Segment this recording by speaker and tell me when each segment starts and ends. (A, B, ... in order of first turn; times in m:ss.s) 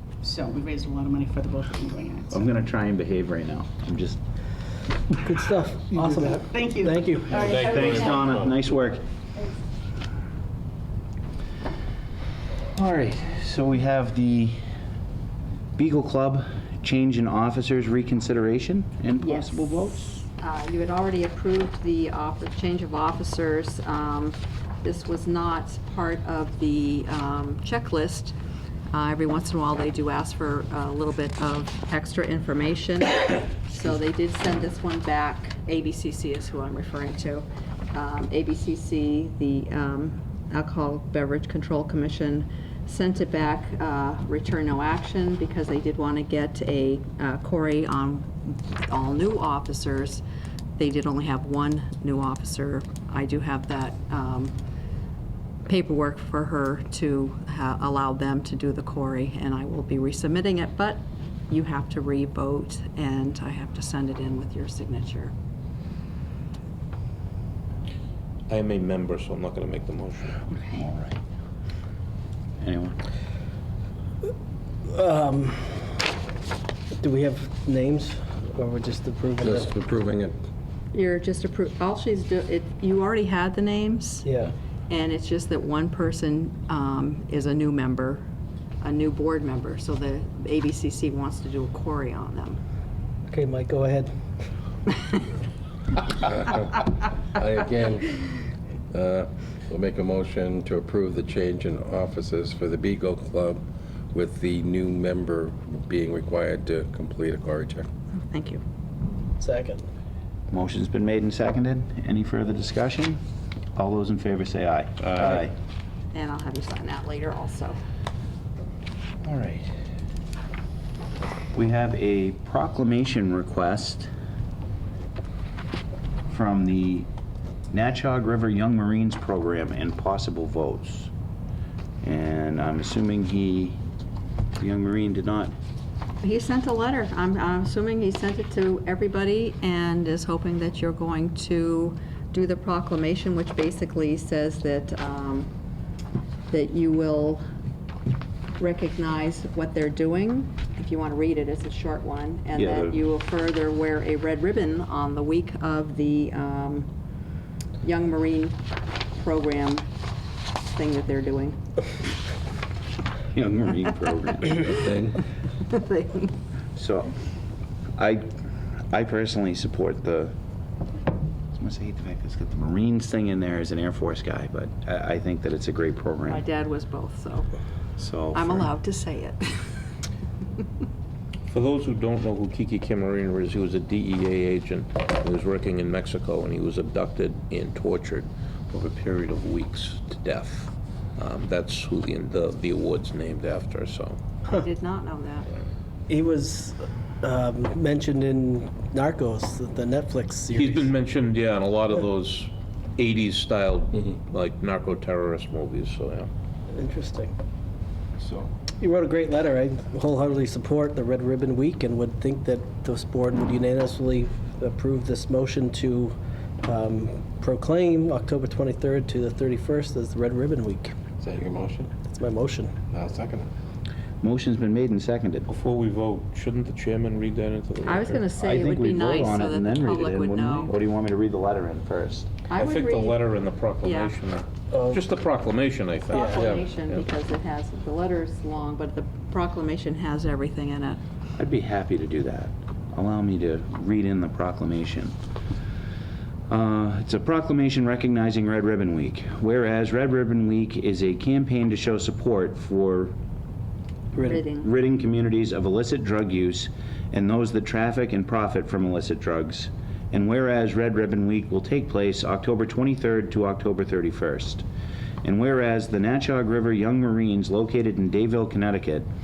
0:00.2-0:02.4 A
0:02.3-0:04.2 B
0:05.2-0:07.5 C
0:06.4-0:08.3 A
0:07.5-0:09.0 B
0:12.8-0:14.6 B
0:15.8-0:20.2 B
0:19.2-0:19.6 D
0:20.4-0:28.4 D
0:28.9-0:50.2 D
0:50.8-0:54.6 D
0:55.7-1:05.3 D
1:08.5-1:10.4 E
1:10.6-1:11.2 B
1:12.6-1:13.0 B
1:14.9-1:16.1 C
1:17.0-1:19.7 C
1:19.4-1:20.4 F
1:20.9-1:24.3 D
1:24.2-1:24.5 C
1:24.9-1:28.2 D
1:28.8-1:32.6 D
1:33.3-1:34.1 C
1:36.3-1:38.2 F
1:38.9-1:43.6 F
1:44.1-1:47.9 F
1:48.2-1:48.6 D
1:49.4-1:49.8 C
1:50.5-1:53.2 B
1:53.8-1:55.5 B
1:56.1-1:57.8 D
1:59.2-1:59.7 B
2:01.5-2:04.1 B
2:06.3-2:07.1 B
2:07.7-2:11.1 B
2:12.0-2:13.8 B
2:14.6-2:15.5 B
2:16.2-2:25.5 D
2:26.5-2:27.4 D
2:28.6-2:36.9 D
2:32.6-2:33.0 B
2:37.8-2:38.6 D
2:39.1-2:39.9 D
2:40.7-2:41.6 D
2:43.3-2:44.9 B
2:45.7-2:46.3 D
2:46.8-2:47.1 B
2:48.0-2:48.3 B
2:48.9-2:50.3 B
2:51.5-2:56.4 B
2:56.3-2:57.5 D
2:58.0-2:58.7 B
2:58.3-2:59.8 D
3:01.5-3:14.2 E
3:14.5-3:15.5 D
3:16.1-3:20.9 C
3:20.5-3:26.3 E
3:26.7-3:27.3 C
3:28.2-3:28.5 F
3:28.8-3:41.0 C
3:41.2-3:41.9 F
3:42.0-3:42.8 C
3:42.9-3:43.5 F
3:44.2-3:45.5 B
3:45.5-3:48.2 E
3:47.9-3:50.7 D
3:48.4-3:52.3 B
3:52.5-3:53.2 D
3:52.6-3:57.0 E
3:53.8-3:54.2 D
3:54.7-3:55.0 C
3:56.1-4:01.0 D
3:56.3-3:56.6 F
4:01.4-4:05.1 B
4:06.5-4:13.2 B
4:14.1-4:14.4 C
4:14.3-4:14.7 D
4:14.5-4:24.7 B
4:25.2-4:29.1 B